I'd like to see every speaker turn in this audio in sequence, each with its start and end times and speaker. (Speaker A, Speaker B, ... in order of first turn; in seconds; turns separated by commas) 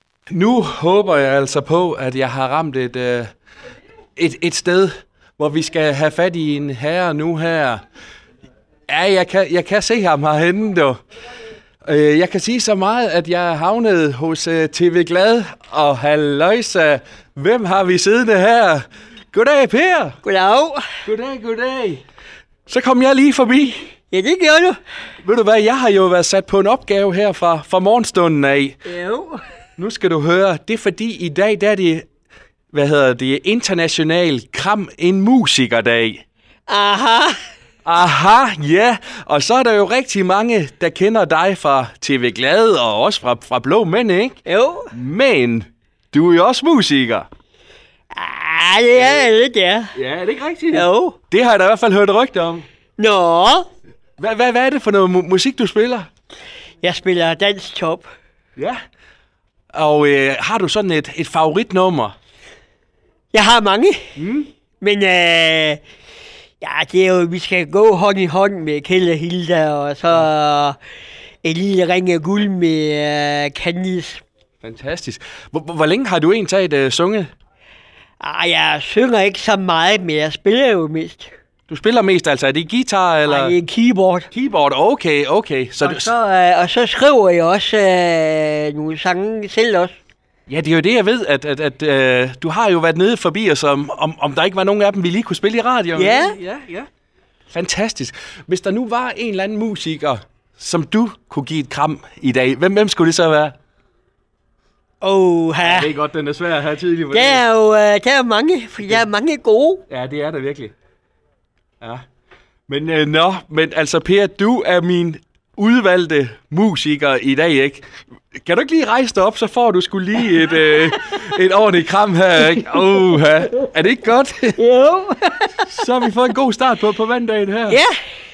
Speaker A: 0.3-3.3, Speaker A: 4.2-7.8, Speaker A: 8.9-11.0, Speaker A: 11.8-20.2, Speaker B: 20.2-20.9, Speaker A: 21.0-22.0, Speaker A: 22.7-23.9, Speaker B: 24.1-24.8, Speaker A: 25.2-28.8, Speaker B: 28.9-29.4, Speaker A: 29.8-32.0, Speaker A: 32.7-36.2, Speaker B: 36.7-37.4, Speaker A: 37.9-44.4, Speaker B: 44.5-44.9, Speaker A: 44.9-47.3, Speaker B: 48.1-49.9, Speaker A: 49.0-49.3, Speaker A: 50.0-52.7, Speaker B: 50.7-51.2, Speaker B: 53.0-53.7, Speaker A: 54.2-56.1, Speaker B: 56.8-58.1, Speaker A: 59.7-62.1, Speaker B: 63.3-64.0, Speaker A: 64.2-64.5, Speaker B: 64.8-65.8, Speaker B: 66.6-70.8, Speaker B: 71.4-74.2, Speaker A: 74.6-77.3, Speaker B: 78.2-81.3, Speaker A: 81.7-83.5, Speaker B: 83.2-84.3, Speaker A: 84.3-86.1, Speaker B: 85.8-90.0, Speaker A: 90.5-96.9, Speaker B: 96.0-96.4, Speaker A: 97.5-103.5, Speaker B: 105.0-105.9, Speaker A: 105.6-107.5, Speaker B: 107.1-109.8, Speaker A: 109.9-110.7, Speaker A: 112.7-124.6, Speaker B: 124.6-125.7, Speaker A: 125.7-127.8, Speaker B: 127.7-128.0